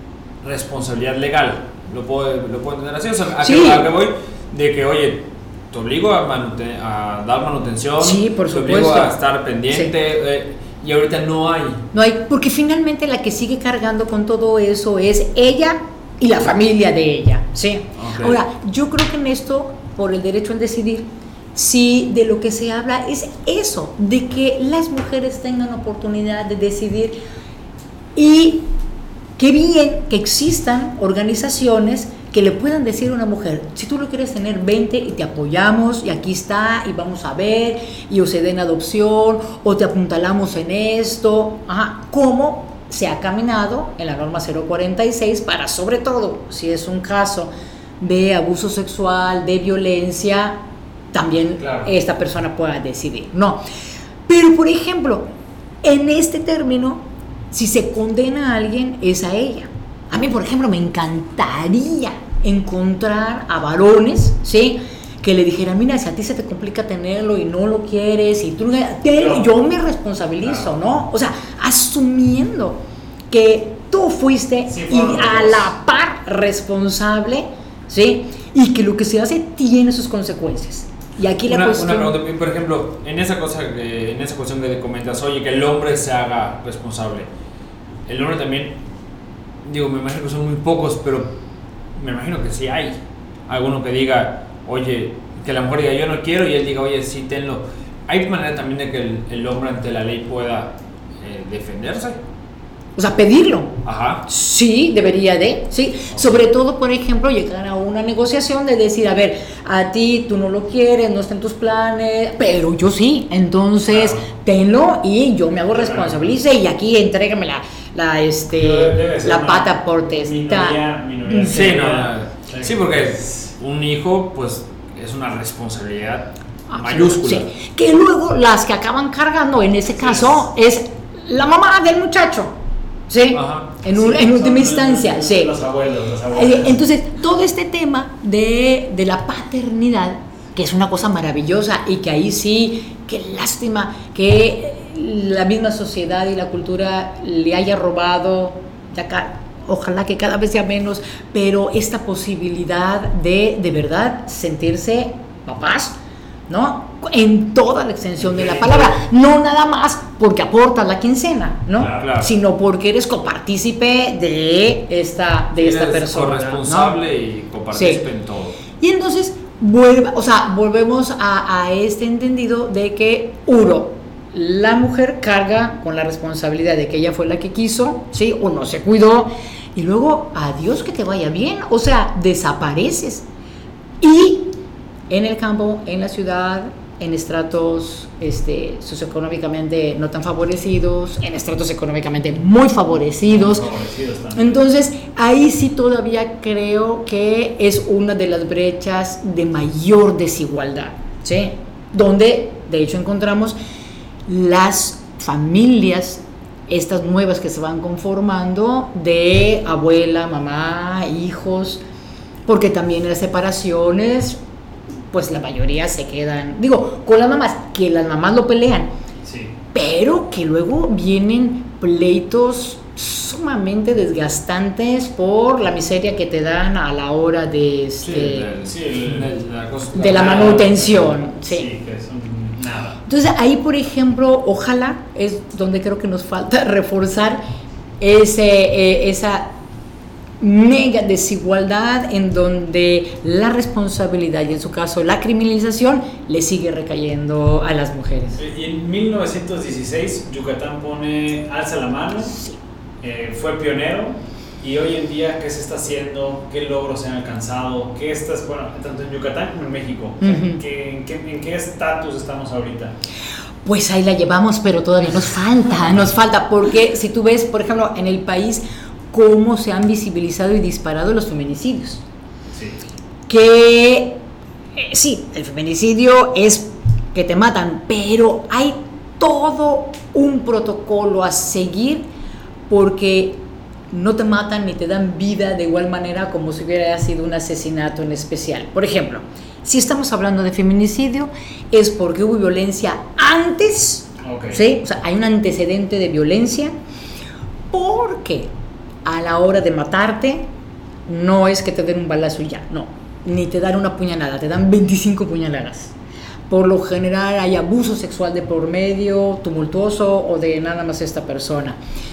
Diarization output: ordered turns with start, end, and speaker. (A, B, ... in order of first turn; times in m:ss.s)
0:00.4-0:11.8 A
0:03.4-0:03.9 B
0:08.0-0:09.2 B
0:11.9-0:27.2 B
0:18.0-0:18.4 A
0:28.2-0:28.7 B
0:29.4-0:50.6 B
0:51.1-0:53.6 B
0:51.6-0:51.9 C
0:54.3-0:55.3 B
0:55.8-1:22.1 B
1:09.2-1:09.5 C
1:10.4-1:10.7 C
1:14.7-1:15.7 C
1:21.5-1:27.3 A
1:28.1-1:28.8 A
1:29.6-1:31.4 A
1:32.0-1:42.2 A
1:43.0-2:01.7 B
1:43.8-1:44.2 A
1:46.1-1:46.4 A
1:53.9-1:54.2 C
1:55.7-1:56.3 C
1:58.6-2:03.5 C
2:01.4-2:07.5 A
2:06.7-2:12.5 B
2:10.0-2:10.4 C
2:13.1-2:15.5 B
2:13.3-2:13.7 A
2:13.9-2:16.8 C
2:16.3-2:36.0 B
2:36.5-2:47.0 B
2:38.2-2:38.9 C
2:41.8-2:42.1 C
2:41.8-2:42.3 A
2:45.6-2:48.6 A
2:47.7-2:48.0 B
2:48.8-3:03.2 B
3:04.0-3:04.6 B
3:05.1-3:13.6 B
3:13.2-3:14.6 C
3:14.4-3:23.6 B
3:24.3-3:31.8 B
3:32.5-3:34.4 B
3:35.1-3:38.9 B
3:39.2-3:39.6 C
3:39.7-3:48.5 B
3:48.0-3:50.9 A
3:48.6-3:49.3 C
3:50.0-3:51.7 B
3:50.0-3:53.0 C
3:53.1-3:57.4 B
3:58.0-3:59.6 B
4:00.4-4:08.4 B
4:08.4-4:12.4 C
4:12.3-4:12.6 B
4:13.0-4:22.9 C
4:20.2-4:20.6 B
4:23.6-4:32.0 B
4:32.5-4:32.8 C
4:33.3-4:34.2 B
4:34.8-4:42.1 B
4:42.7-4:56.7 B
4:54.2-4:54.6 C
4:57.7-4:58.5 B
4:59.0-5:00.5 B
5:01.1-5:06.0 B
5:06.5-5:11.8 B